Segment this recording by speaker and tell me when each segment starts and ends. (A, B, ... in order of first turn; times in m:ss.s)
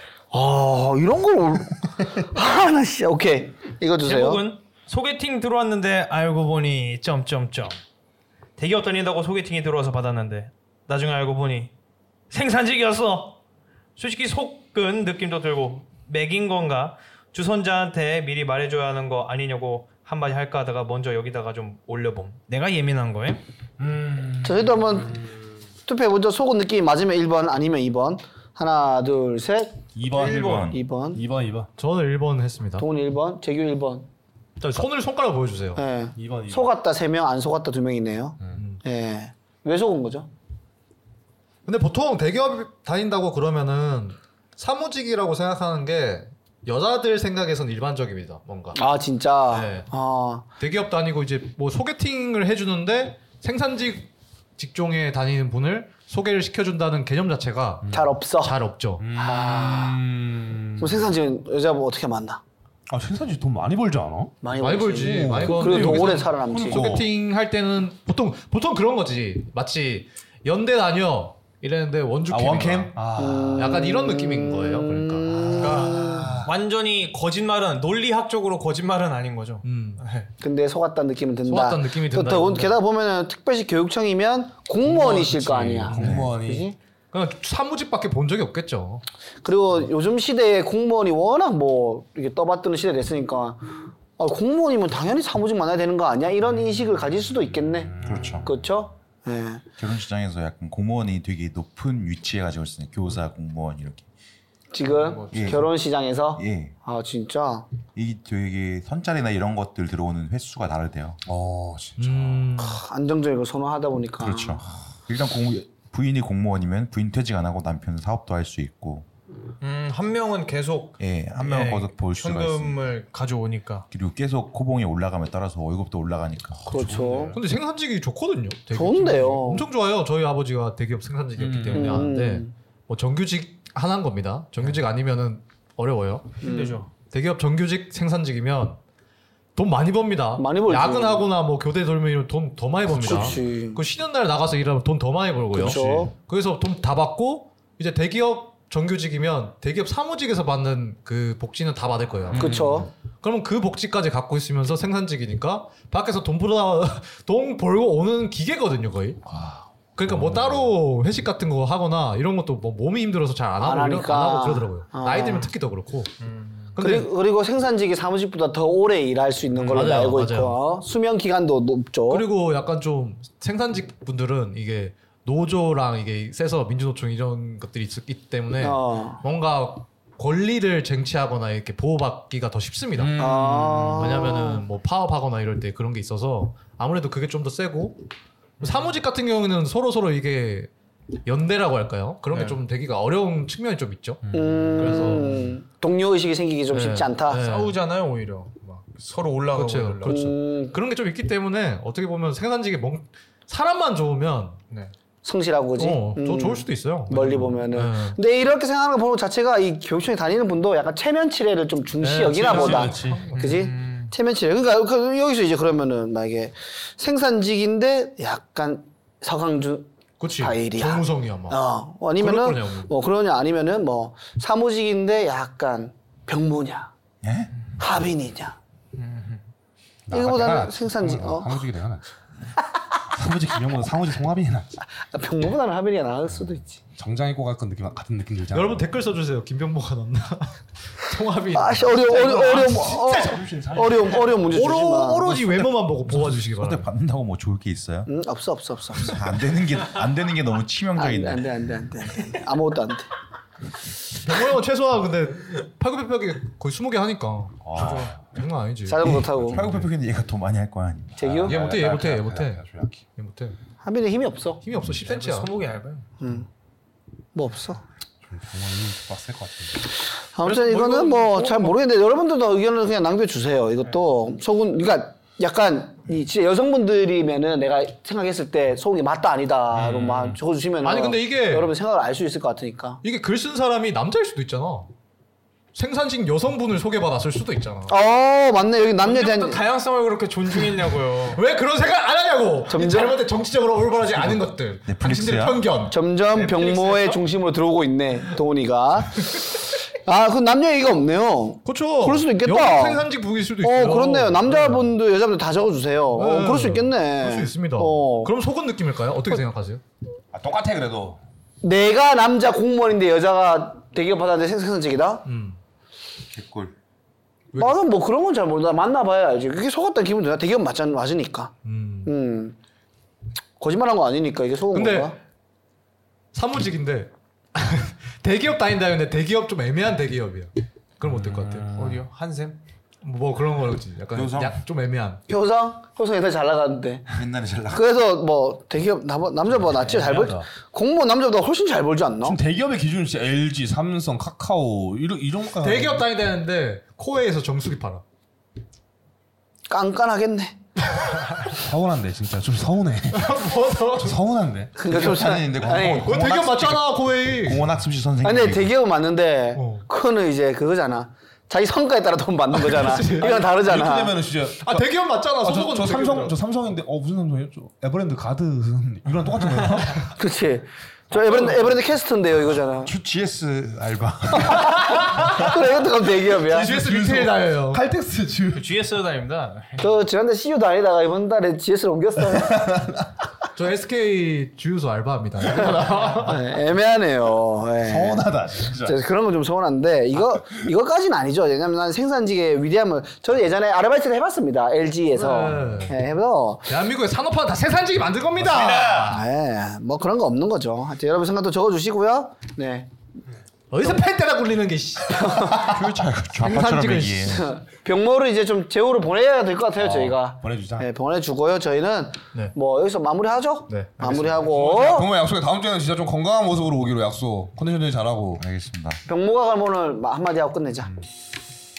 0:00.3-0:04.4 A
0:04.0-0:07.8 B
0:08.6-0:11.7 B
0:12.3-0:13.4 B
0:14.0-0:23.4 B
0:23.8-0:25.5 C
0:24.4-0:25.2 A
0:25.8-0:29.8 A
0:30.0-0:31.7 C
0:30.1-0:30.8 B
0:30.6-0:31.2 A
0:31.8-0:32.9 D
0:32.8-0:34.1 A
0:34.6-0:35.8 D
0:35.8-0:40.3 A
0:36.2-0:36.7 C
0:38.5-0:38.8 D
0:41.7-0:48.8 D
0:48.8-0:50.5 A
0:49.5-0:49.9 D
0:50.6-0:59.0 D
0:57.8-0:58.2 C
0:57.9-0:58.6 A
0:59.0-1:01.1 C
0:59.2-1:00.0 A
1:00.8-1:02.4 A
1:02.9-1:04.4 C
1:04.4-1:06.9 A
1:04.6-1:15.5 D
1:05.0-1:07.1 C
1:12.3-1:13.9 C
1:13.2-1:16.3 A
1:15.3-1:16.5 C
1:15.6-1:20.3 B
1:19.6-1:20.0 D
1:20.4-1:26.8 A
1:21.5-1:22.8 D
1:24.8-1:26.7 C
1:24.9-1:26.2 D
1:27.1-1:29.0 D
1:29.4-1:39.6 A
1:37.9-1:38.5 C
1:38.0-1:38.5 E
1:39.8-1:44.1 E
1:44.7-1:47.8 A
1:44.9-1:45.2 B
1:45.3-1:45.7 E
1:46.4-1:46.8 E
1:47.9-1:51.2 E
1:51.3-1:52.6 C
1:52.0-1:52.8 D
1:52.6-1:54.6 A
1:54.2-1:59.1 E
1:59.6-2:03.9 B
2:01.0-2:02.8 E
2:03.9-2:06.9 E
2:06.7-2:07.4 C
2:06.7-2:07.4 A
2:06.8-2:07.4 B
2:07.3-2:16.3 D
2:08.7-2:09.7 A
2:11.4-2:12.1 C
2:11.7-2:12.5 A
2:16.4-2:16.8 A
2:16.4-2:16.9 B
2:17.1-2:18.8 D
2:19.6-2:32.6 D
2:20.4-2:21.3 A
2:23.0-2:23.8 A
2:23.0-2:23.4 C
2:25.6-2:26.1 A
2:32.3-2:32.9 C
2:32.4-2:32.9 A
2:33.2-2:39.2 D
2:39.3-2:40.8 C
2:40.0-2:46.1 D
2:43.6-2:45.5 A
2:46.2-2:46.8 B
2:46.8-2:47.1 D
2:46.8-2:52.3 A
2:49.7-2:50.6 D
2:52.1-3:03.2 D
2:58.6-2:59.2 A
3:03.0-3:04.2 C
3:03.2-3:04.7 A
3:04.0-3:08.0 D
3:08.6-3:09.0 B
3:08.6-3:10.7 D
3:11.3-3:14.2 D
3:12.3-3:12.6 B
3:14.2-3:14.9 C
3:14.3-3:17.4 A
3:14.8-3:15.6 D
3:16.7-3:17.8 D
3:17.4-3:20.3 B
3:19.5-3:24.6 D
3:20.0-3:20.8 A
3:25.2-3:46.9 A
3:25.8-3:28.2 D
3:32.0-3:33.6 D
3:32.4-3:33.2 C
3:33.0-3:34.1 B
3:40.2-3:41.6 D
3:42.2-3:42.9 D
3:47.2-3:47.5 E
3:47.8-3:48.6 A
3:49.0-3:49.4 B
3:50.1-3:52.0 C
3:50.1-3:51.6 A
3:53.1-3:54.8 C
3:55.0-3:56.8 A
3:56.3-3:59.0 C
3:58.5-4:02.6 D
4:01.5-4:05.7 A
4:01.8-4:04.5 C
4:04.5-4:06.9 D
4:06.1-4:08.1 E
4:08.1-4:09.2 A
4:09.0-4:11.4 E
4:11.0-4:13.1 A
4:14.1-4:19.2 D
4:17.7-4:18.1 C
4:17.7-4:18.0 E
4:17.8-4:18.1 B
4:18.9-4:19.7 A
4:19.4-4:19.9 C
4:19.5-4:21.3 E
4:21.2-4:21.6 A
4:21.2-4:23.0 C
4:21.5-4:22.6 D
4:23.2-4:23.6 D
4:23.8-4:24.6 A
4:24.6-4:25.6 D
4:25.0-4:26.1 B
4:26.2-4:26.5 A
4:27.3-4:27.8 A
4:28.2-4:29.9 C
4:30.3-4:43.0 A
4:30.4-4:31.8 D
4:39.7-4:40.4 C
4:40.8-4:41.7 D
4:43.0-4:44.9 D
4:45.7-4:48.0 D
4:47.9-4:49.6 A
4:48.8-4:51.4 B
4:51.3-4:56.0 D
4:52.7-4:53.2 A
4:54.9-4:55.7 E
4:55.9-5:08.3 A
4:56.3-4:57.2 B
5:01.6-5:05.0 D
5:06.2-5:09.8 D
5:10.3-5:11.2 C
5:11.6-5:15.2 A
5:15.2-5:15.6 D
5:16.3-5:16.8 E
5:17.5-5:17.8 D
5:17.6-5:21.5 A
5:21.6-5:22.1 D
5:22.0-5:22.6 A
5:23.6-5:25.2 A
5:24.7-5:25.2 D
5:26.3-5:31.7 D
5:31.0-5:32.0 C
5:31.8-5:32.6 B
5:33.0-5:35.2 D
5:34.1-5:34.6 E
5:35.3-5:37.1 A
5:37.1-5:37.8 E
5:37.7-5:42.4 A
5:39.6-5:40.3 D
5:39.8-5:40.5 C
5:42.2-5:46.1 C
5:45.6-5:48.0 D
5:49.7-5:50.5 A
5:51.5-5:55.8 C
5:53.1-5:54.2 D
5:54.8-5:56.1 A
5:54.8-5:58.7 E
5:55.7-5:57.8 D
5:58.2-6:04.2 A
5:59.6-5:59.9 D
6:02.5-6:03.6 D
6:03.2-6:04.9 C
6:04.6-6:06.4 D
6:05.4-6:10.1 C
6:10.1-6:12.9 A
6:12.8-6:14.7 C
6:13.0-6:14.8 E
6:14.6-6:15.5 D
6:15.0-6:16.7 A
6:16.3-6:18.8 C
6:16.5-6:17.8 D
6:18.5-6:19.8 B
6:19.8-6:22.7 A
6:22.2-6:23.1 C
6:23.6-6:26.4 D
6:26.2-6:36.7 A
6:27.8-6:29.0 C
6:35.1-6:36.0 D
6:36.7-6:39.2 D
6:38.8-6:39.1 B
6:38.9-6:42.9 A
6:43.7-6:45.8 D
6:45.2-6:45.6 A
6:45.5-6:47.5 E
6:46.4-6:47.5 D
6:47.3-6:55.1 A
6:49.8-6:50.9 C
6:53.7-6:54.4 D
6:54.4-6:58.4 C
6:58.4-6:59.0 E
6:59.1-7:00.9 A